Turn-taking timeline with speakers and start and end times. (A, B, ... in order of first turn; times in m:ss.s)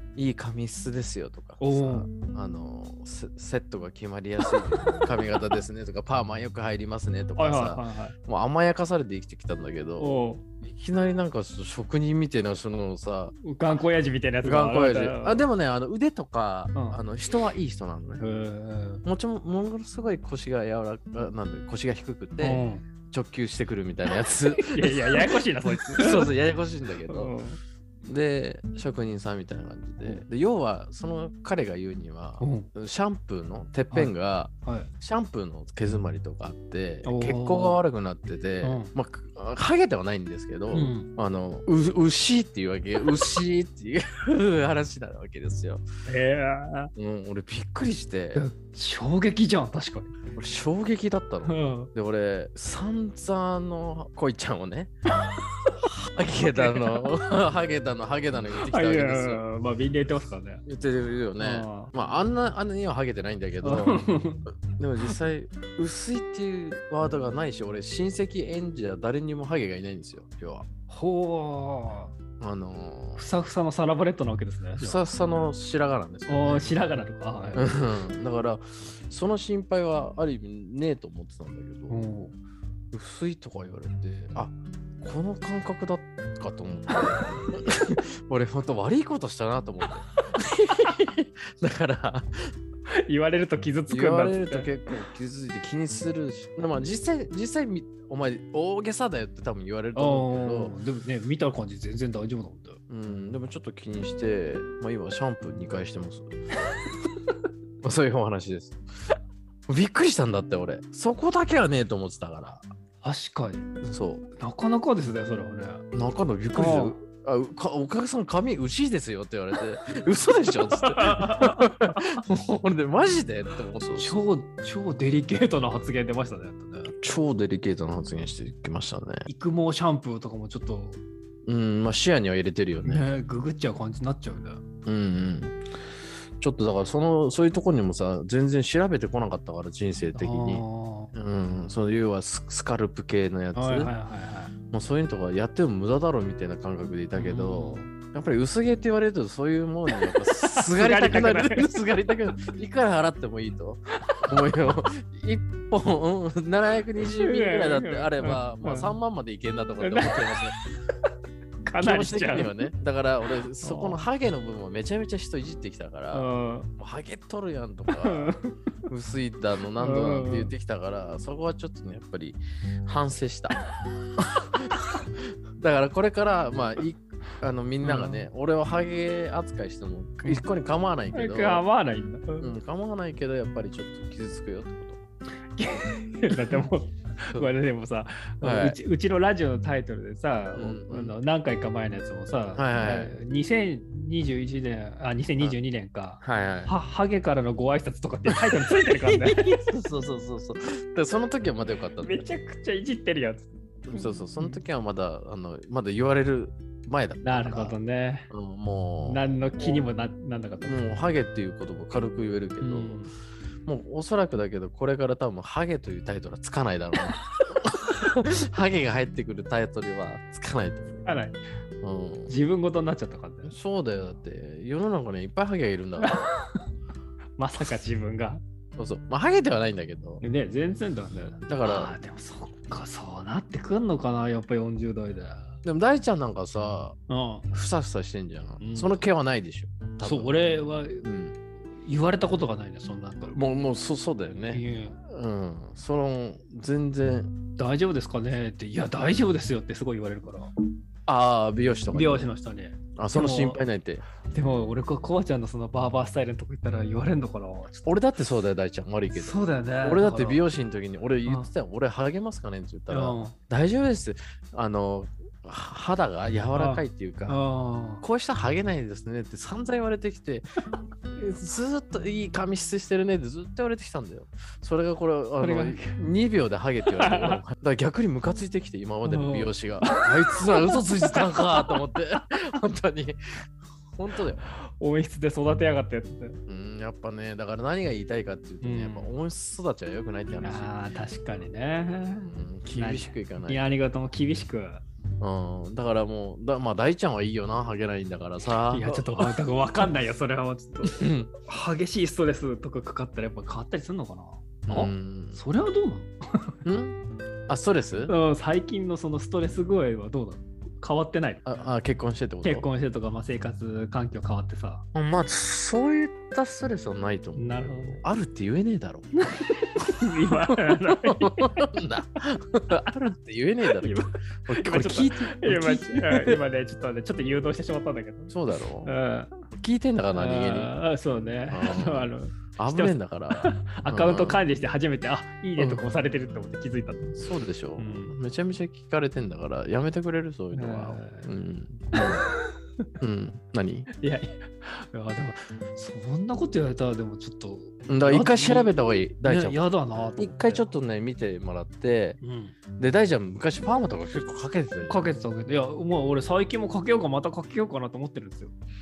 0:00.2-0:13.4 A
0:01.6-0:02.1 B
0:04.7-0:05.0 B
0:07.4-0:08.2 B
0:10.0-0:10.4 B
0:13.4-0:15.5 B
0:14.4-0:18.2 A
0:16.7-0:17.0 B
0:18.2-0:19.0 B
0:19.0-0:27.3 A
0:22.4-0:22.8 B
0:24.5-0:26.3 B
0:27.1-0:27.6 B
0:28.0-0:45.8 A
0:30.0-0:30.2 B
0:32.4-0:32.7 B
0:34.6-0:34.9 B
0:37.0-0:37.8 B
0:38.6-0:38.9 B
0:40.7-0:41.1 B
0:46.1-0:46.9 B
0:47.0-0:48.4 A
0:48.3-0:50.1 B
0:50.4-0:54.9 A
0:51.4-0:51.9 B
0:55.8-0:59.4 A
0:56.4-0:57.1 B
0:58.6-1:00.6 B
1:00.6-1:04.0 A
1:01.4-1:01.9 B
1:03.6-1:04.5 B
1:04.8-1:10.6 A
1:10.9-1:12.1 B
1:12.4-1:13.2 A
1:13.2-1:15.0 B
1:14.8-1:16.9 A
1:16.3-1:17.6 B
1:17.4-1:22.0 A
1:21.9-1:22.4 B
1:22.9-1:32.5 A
1:33.0-1:34.7 B
1:33.9-1:40.7 A
1:39.9-1:42.8 B
1:42.9-1:46.3 A
1:47.8-1:48.8 A
1:49.7-1:52.6 A
1:53.0-1:53.6 B
1:53.8-1:54.2 A
1:54.4-1:55.8 B
1:55.9-2:04.2 A
1:56.5-1:57.0 B
2:00.8-2:02.2 B
2:03.9-2:06.9 B
2:06.9-2:09.3 A
2:09.3-2:11.0 B
2:11.4-2:13.1 A
2:12.8-2:14.6 B
2:14.8-2:15.6 A
2:16.4-2:23.9 A
2:20.1-2:21.1 B
2:23.5-2:24.5 B
2:24.7-2:40.5 A
2:27.1-2:27.9 B
2:30.0-2:31.9 B
2:37.2-2:38.9 B
2:39.8-2:40.2 B
2:41.6-2:42.5 B
2:41.8-2:48.4 A
2:43.6-2:44.0 B
2:46.1-2:46.7 B
2:48.0-2:48.5 B
2:48.9-2:53.6 A
2:49.8-2:50.5 B
2:54.4-3:01.6 A
2:57.8-2:58.3 B
3:01.1-3:02.5 B
3:02.4-3:05.0 A
3:05.6-3:19.7 B
3:06.3-3:06.6 A
3:08.4-3:08.8 A
3:10.5-3:11.2 A
3:12.6-3:13.1 A
3:16.2-3:16.7 A
3:19.1-3:22.2 A
3:22.0-3:24.6 B
3:23.9-3:27.8 A
3:27.2-3:28.3 B
3:28.3-3:29.8 A
3:29.0-3:30.8 B
3:30.6-3:33.0 A
3:32.6-3:33.1 B
3:33.6-3:41.1 A
3:41.0-3:41.4 B
3:41.8-3:42.3 A
3:42.3-3:43.5 B
3:43.5-3:46.2 A
3:46.0-3:46.6 B
3:47.4-3:48.4 B
3:48.8-3:50.2 A
3:50.2-3:55.6 B
3:51.5-3:51.9 A
3:55.6-3:57.0 A
3:57.1-3:57.5 B
3:57.5-4:00.4 A
3:58.6-3:59.0 B
4:00.0-4:01.0 B
4:01.0-4:01.3 A
4:01.8-4:03.4 B
4:03.3-4:07.3 A
4:04.5-4:05.0 B
4:07.6-4:10.5 B
4:11.1-4:12.3 A
4:11.9-4:13.6 B
4:13.0-4:14.0 A
4:14.2-4:18.0 B
4:17.8-4:27.4 A
4:19.1-4:20.4 B
4:22.9-4:23.4 B
4:26.5-4:28.0 B
4:28.0-4:30.5 A
4:31.1-4:44.4 A
4:35.4-4:36.0 B
4:36.8-4:37.4 B
4:39.0-4:41.8 B
4:44.6-4:46.4 B
4:46.5-4:50.7 A
4:48.6-4:49.1 B
4:50.4-4:54.8 B
4:52.2-4:53.6 A
4:55.2-4:59.9 A
4:58.6-5:06.6 B
5:00.8-5:01.3 A
5:04.7-5:05.4 A
5:06.6-5:08.1 A
5:08.1-5:11.4 B
5:11.4-5:12.7 A
5:12.4-5:14.8 B
5:14.9-5:19.1 A
5:17.4-5:18.0 B
5:19.4-5:21.6 B
5:20.0-5:26.4 A
5:23.7-5:28.3 B
5:28.3-5:28.9 A
5:28.8-5:29.4 B
5:29.5-5:30.7 A
5:30.1-5:37.2 B
5:31.5-5:34.4 A
5:35.6-5:35.8 A
5:37.1-5:42.2 A
5:37.8-5:38.1 B
5:40.5-5:41.3 B
5:41.9-5:42.8 B
5:43.0-5:43.9 A
5:44.0-5:50.7 B
5:47.9-5:52.2 A
5:52.2-5:52.6 B
5:52.8-5:55.0 A
5:54.8-5:58.5 B